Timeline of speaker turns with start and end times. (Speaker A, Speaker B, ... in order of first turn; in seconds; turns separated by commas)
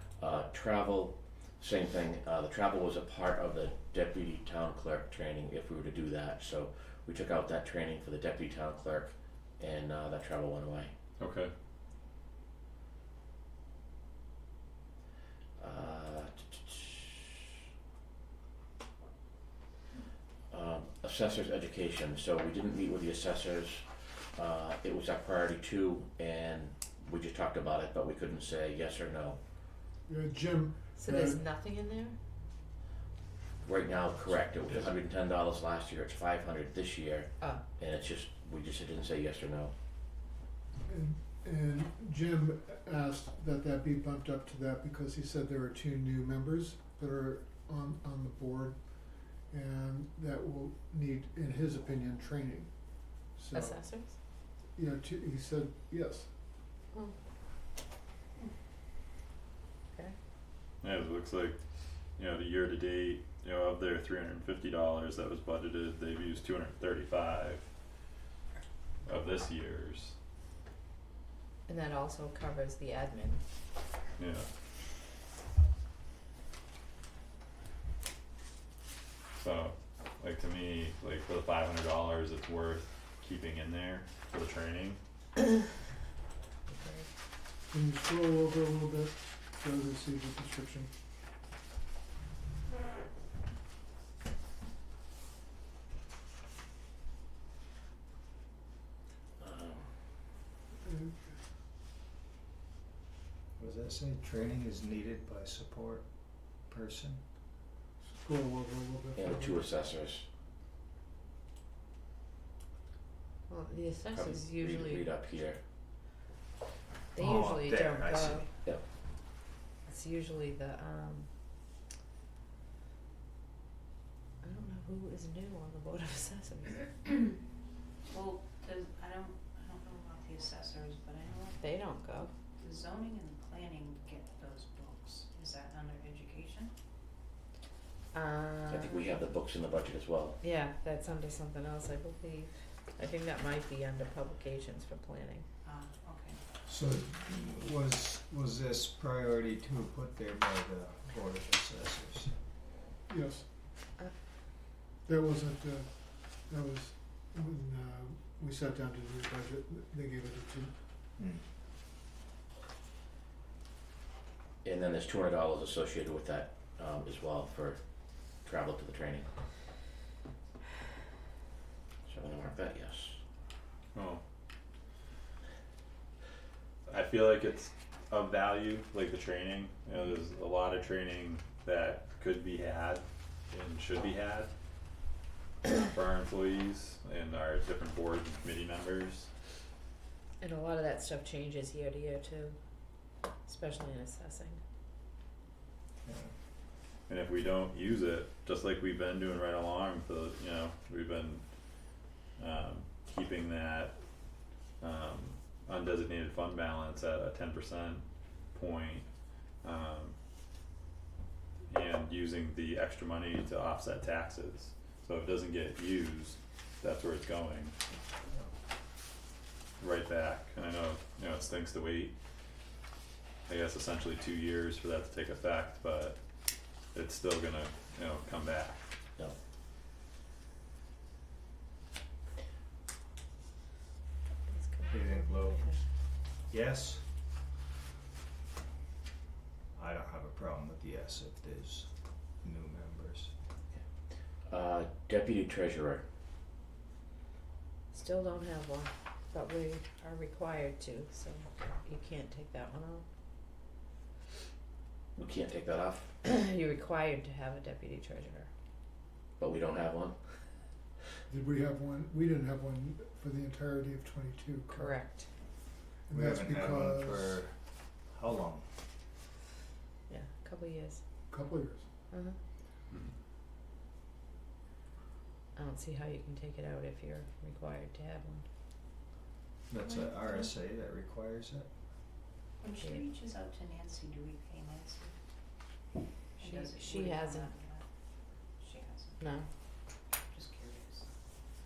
Speaker A: 0.2-10.9, Speaker B: 11.2-11.5, Speaker A: 15.6-17.3, Speaker A: 20.5-29.4, Speaker C: 30.1-31.4, Speaker D: 31.0-32.2, Speaker A: 33.6-39.7, Speaker C: 40.9-48.8, Speaker C: 49.5-53.8, Speaker D: 53.5-54.2, Speaker C: 54.8-56.3, Speaker B: 60.8-61.6, Speaker B: 62.2-67.7, Speaker B: 69.0-70.2, Speaker D: 71.7-73.4, Speaker B: 74.2-74.5, Speaker B: 79.3-85.0, Speaker D: 86.7-87.1, Speaker C: 87.7-90.9, Speaker A: 99.4-99.9, Speaker C: 100.8-101.4, Speaker E: 103.6-106.1, Speaker E: 106.7-107.2, Speaker C: 108.0-109.7, Speaker A: 109.2-110.3, Speaker D: 113.5-115.1, Speaker A: 114.1-115.6, Speaker D: 117.1-118.5, Speaker E: 117.2-118.5, Speaker D: 119.9-121.3, Speaker D: 124.4-127.0, Speaker F: 128.1-131.6, Speaker D: 131.6-132.3, Speaker F: 132.6-136.7, Speaker D: 138.1-139.1, Speaker A: 138.7-140.4, Speaker D: 140.4-145.5, Speaker F: 145.6-146.4, Speaker E: 146.7-152.4, Speaker C: 153.1-153.5, Speaker C: 155.0-160.7, Speaker E: 161.2-161.4, Speaker A: 164.6-167.8, Speaker A: 168.4-169.3, Speaker A: 172.1-173.2, Speaker B: 173.9-174.2, Speaker B: 176.9-184.5, Speaker B: 185.7-189.3, Speaker D: 190.4-192.6, Speaker D: 193.4-194.6, Speaker E: 196.0-196.3, Speaker B: 197.1-201.4, Speaker B: 202.4-203.9, Speaker B: 204.8-209.1, Speaker B: 209.6-210.2, Speaker B: 211.7-217.8, Speaker B: 219.8-222.1, Speaker B: 223.5-226.2, Speaker B: 226.9-228.8, Speaker D: 234.5-235.8, Speaker E: 234.9-235.8, Speaker E: 236.5-237.1, Speaker E: 239.8-243.3, Speaker A: 244.5-246.1, Speaker D: 247.9-253.0, Speaker A: 255.2-256.1, Speaker D: 256.2-258.5, Speaker A: 259.4-260.2, Speaker C: 261.3-264.9, Speaker D: 264.7-265.3, Speaker E: 266.1-268.7, Speaker C: 266.1-267.4, Speaker D: 270.1-271.0, Speaker C: 271.3-271.9, Speaker D: 272.1-272.4, Speaker D: 275.6-278.4, Speaker E: 279.7-281.7, Speaker F: 279.9-280.4, Speaker F: 282.6-285.2, Speaker F: 286.4-287.8, Speaker D: 286.4-287.5, Speaker F: 288.6-289.2, Speaker D: 289.2-289.5, Speaker F: 290.3-291.1